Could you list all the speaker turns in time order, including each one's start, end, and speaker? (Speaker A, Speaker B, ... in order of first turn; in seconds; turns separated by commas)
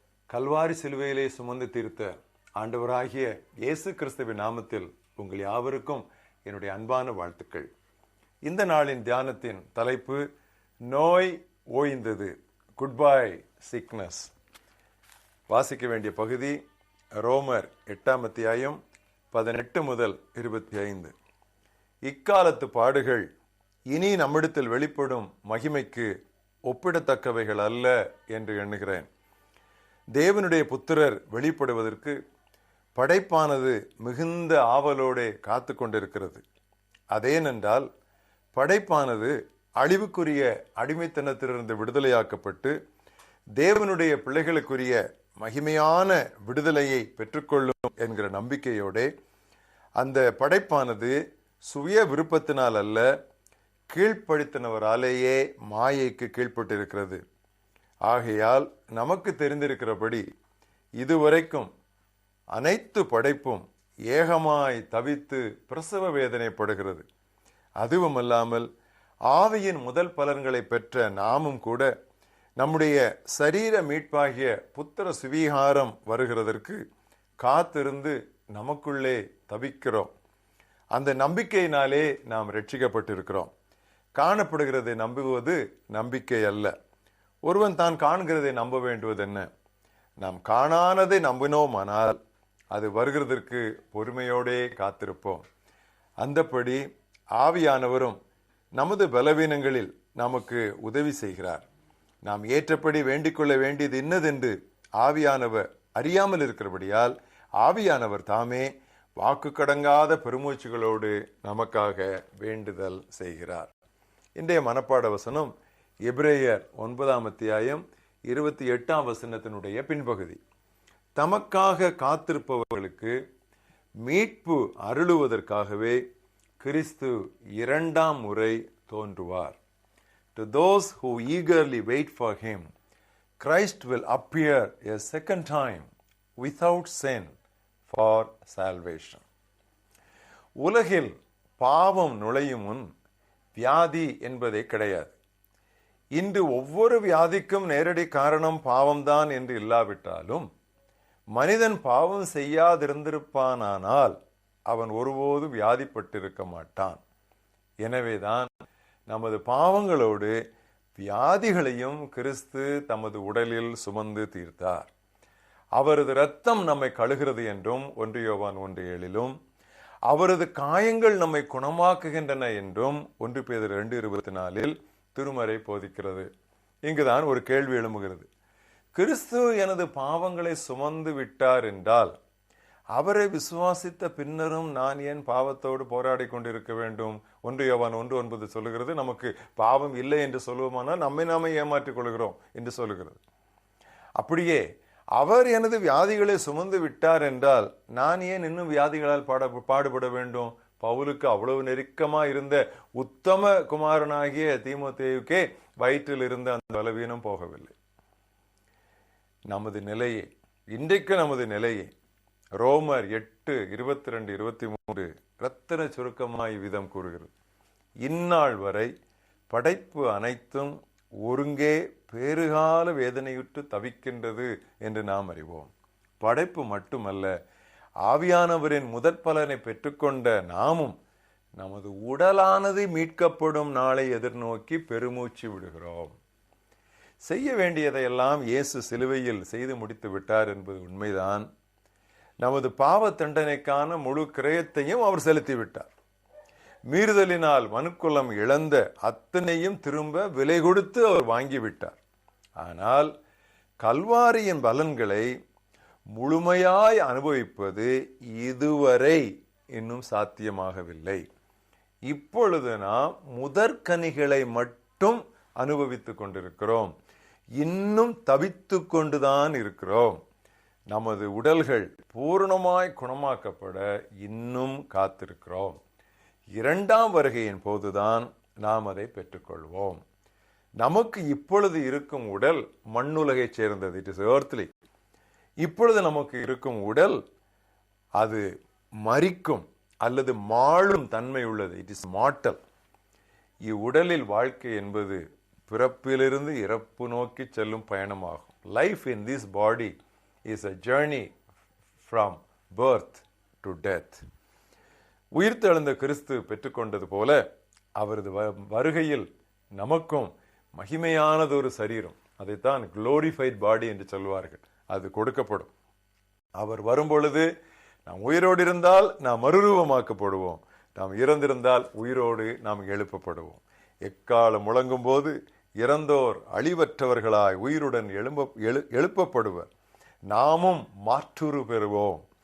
Speaker A: 0.3-7.7, Speaker A: 8.4-10.2, Speaker A: 10.9-14.3, Speaker A: 15.5-16.6, Speaker A: 17.2-18.8, Speaker A: 19.3-21.1, Speaker A: 22.1-23.3, Speaker A: 23.9-26.1, Speaker A: 26.7-29.1, Speaker A: 30.1-32.2, Speaker A: 33.0-36.4, Speaker A: 37.1-37.9, Speaker A: 38.5-42.7, Speaker A: 43.6-49.1, Speaker A: 50.0-51.1, Speaker A: 51.7-53.1, Speaker A: 53.9-57.2, Speaker A: 58.1-60.2, Speaker A: 61.0-61.7, Speaker A: 62.5-67.0, Speaker A: 67.8-68.7, Speaker A: 69.3-71.9, Speaker A: 72.6-76.8, Speaker A: 77.4-80.1, Speaker A: 80.9-83.5, Speaker A: 84.2-86.7, Speaker A: 87.5-89.5, Speaker A: 90.2-92.2, Speaker A: 92.7-95.4, Speaker A: 96.2-96.8, Speaker A: 97.4-98.2, Speaker A: 98.8-101.6, Speaker A: 102.2-113.7, Speaker A: 114.4-115.5, Speaker A: 116.1-120.4, Speaker A: 121.2-123.2, Speaker A: 124.0-126.0, Speaker A: 126.6-129.6, Speaker A: 130.3-132.7, Speaker A: 133.4-135.9, Speaker A: 136.4-137.3, Speaker A: 137.9-139.2, Speaker A: 140.6-142.9, Speaker A: 143.6-145.2, Speaker A: 146.2-150.5, Speaker A: 151.3-154.2, Speaker A: 154.7-157.0, Speaker A: 157.8-158.5, Speaker A: 159.1-160.4, Speaker A: 161.0-164.9, Speaker A: 165.8-169.3, Speaker A: 170.1-176.3, Speaker A: 176.8-178.3, Speaker A: 178.9-182.1, Speaker A: 182.9-193.2, Speaker A: 194.2-194.6, Speaker A: 195.2-207.7, Speaker A: 209.5-211.9, Speaker A: 212.6-217.3, Speaker A: 218.0-218.9, Speaker A: 219.5-227.3, Speaker A: 228.1-230.9, Speaker A: 231.6-236.2, Speaker A: 237.2-241.5, Speaker A: 242.4-245.9, Speaker A: 246.9-252.0, Speaker A: 252.6-253.1, Speaker A: 253.8-255.3, Speaker A: 256.1-261.2, Speaker A: 262.1-266.9, Speaker A: 267.6-270.2, Speaker A: 270.9-275.8, Speaker A: 276.6-280.0, Speaker A: 280.8-284.7, Speaker A: 285.6-287.2, Speaker A: 288.2-288.4, Speaker A: 289.0-292.6, Speaker A: 293.6-299.9, Speaker A: 300.5-301.3, Speaker A: 302.1-304.2, Speaker A: 305.4-307.4, Speaker A: 308.0-315.7, Speaker A: 316.6-317.5, Speaker A: 318.1-329.7, Speaker A: 330.3-332.2